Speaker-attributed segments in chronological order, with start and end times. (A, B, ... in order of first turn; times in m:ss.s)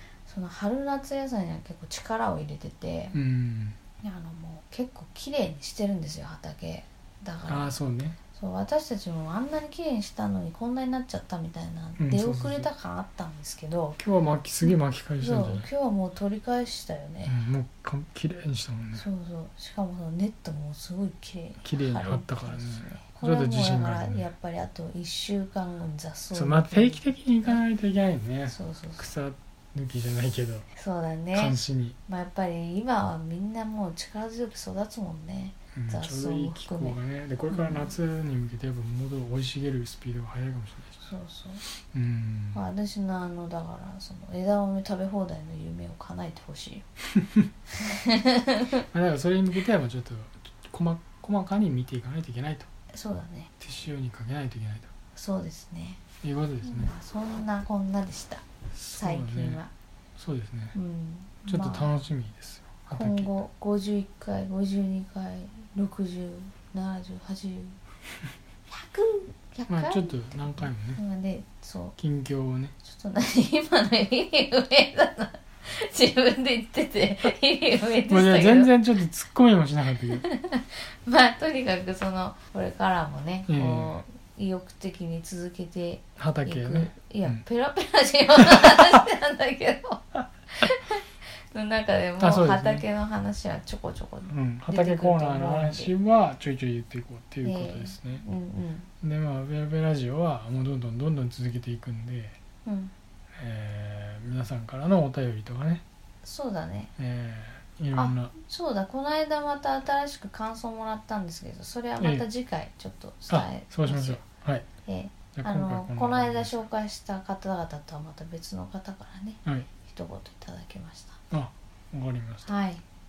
0:00.2-0:03.2 A
0:03.1-0:03.8 B
0:04.0-0:07.8 A
0:07.4-0:08.2 B
0:08.3-0:14.0 A
0:12.0-0:12.7 B
0:14.0-0:15.7 B
0:14.6-0:17.4 A
0:17.2-0:19.0 B
0:18.9-0:27.6 A
0:21.6-0:24.2 B
0:26.3-0:30.7 B
0:28.5-0:29.0 A
0:30.7-0:37.0 A
0:31.3-0:32.0 B
0:35.7-0:41.0 B
0:37.5-0:37.9 A
0:41.0-0:41.6 A
0:41.9-0:42.6 B
0:42.5-0:46.8 A
0:47.8-0:48.8 A
0:48.9-0:52.7 B
0:52.9-0:53.5 A
0:53.6-0:54.9 B
0:55.1-0:56.0 A
0:56.2-0:56.9 B
0:56.6-0:59.7 A
0:58.7-0:59.6 B
1:00.2-1:00.7 B
1:00.7-1:01.9 A
1:01.5-1:03.3 B
1:02.9-1:07.8 A
1:08.7-1:12.0 A
1:09.7-1:11.0 B
1:12.0-1:12.7 B
1:12.8-1:18.7 A
1:18.1-1:20.2 B
1:20.2-1:35.9 A
1:23.5-1:24.0 B
1:26.2-1:27.4 B
1:32.2-1:32.8 B
1:34.2-1:38.2 B
1:37.4-1:38.9 A
1:39.0-1:42.4 B
1:42.6-1:42.9 A
1:43.4-1:45.8 B
1:46.2-1:46.9 A
1:47.0-1:48.3 B
1:47.9-1:54.2 A
1:52.0-1:52.2 B
1:53.3-1:54.6 B
1:54.8-2:01.2 A
1:55.4-1:56.6 B
2:01.3-2:02.5 B
2:02.4-2:02.8 A